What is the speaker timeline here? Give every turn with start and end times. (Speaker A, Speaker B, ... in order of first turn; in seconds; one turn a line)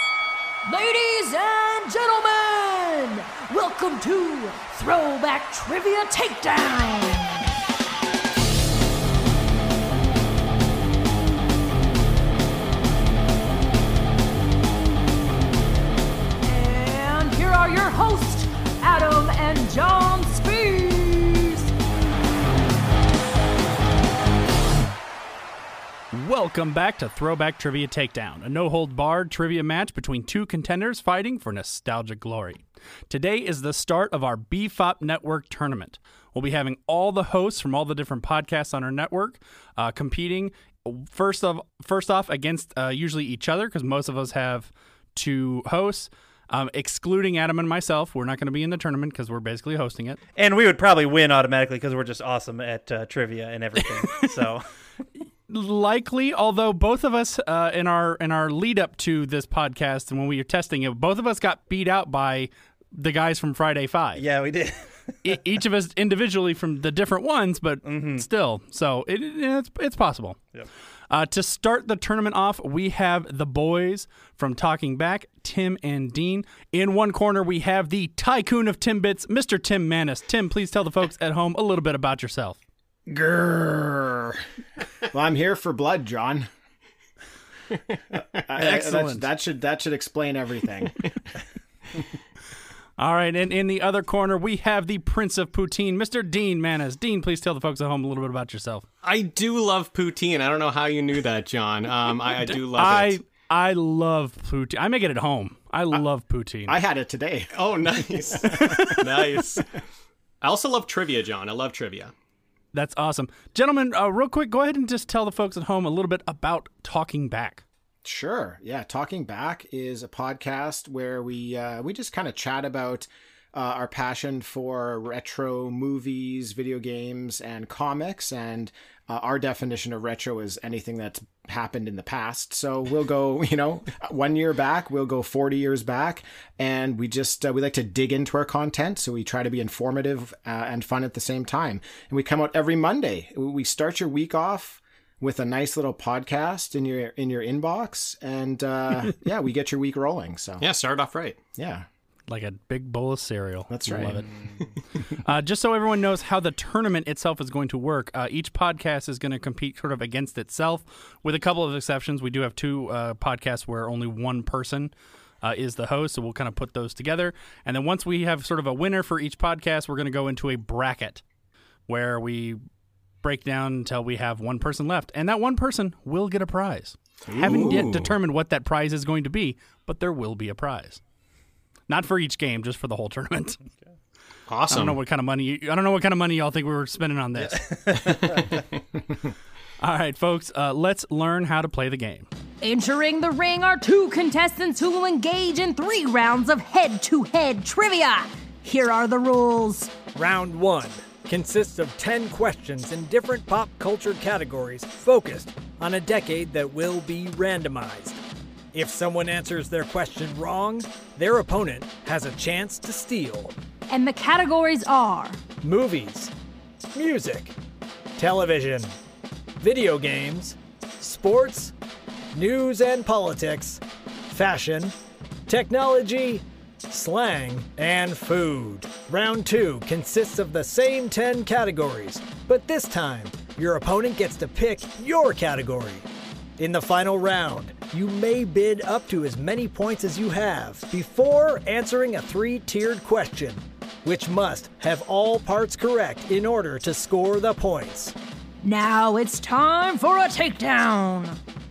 Speaker A: 0.7-7.5
Speaker A: 16.4-21.7
Speaker B: 26.1-50.2
Speaker C: 50.4-54.6
Speaker B: 55.5-64.2
Speaker C: 64.1-65.3
Speaker B: 65.2-70.4
Speaker C: 67.8-68.2
Speaker B: 71.1-82.6
Speaker D: 83.1-84.4
Speaker D: 85.1-86.5
Speaker D: 88.4-91.1
Speaker B: 88.5-89.3
Speaker B: 93.0-98.8
Speaker E: 99.0-103.2
Speaker B: 102.4-106.8
Speaker D: 106.7-108.9
Speaker E: 107.5-109.7
Speaker B: 108.5-109.0
Speaker E: 110.4-112.1
Speaker B: 112.7-117.6
Speaker D: 118.0-150.7
Speaker E: 150.6-151.4
Speaker D: 151.6-151.8
Speaker B: 152.3-154.4
Speaker D: 153.7-154.2
Speaker B: 155.1-171.2
Speaker B: 171.9-172.6
Speaker B: 173.2-181.0
Speaker E: 177.3-178.2
Speaker D: 177.4-177.8
Speaker B: 181.9-183.6
Speaker E: 184.5-185.0
Speaker B: 184.7-188.3
Speaker C: 187.5-188.5
Speaker B: 189.8-192.3
Speaker A: 192.6-200.0
Speaker F: 200.1-208.2
Speaker F: 208.7-213.6
Speaker A: 213.9-215.4
Speaker F: 215.6-216.3
Speaker F: 216.9-217.6
Speaker F: 218.2-218.9
Speaker F: 219.6-221.7
Speaker F: 222.3-224.9
Speaker F: 225.5-236.1
Speaker F: 236.6-248.1
Speaker A: 248.6-251.4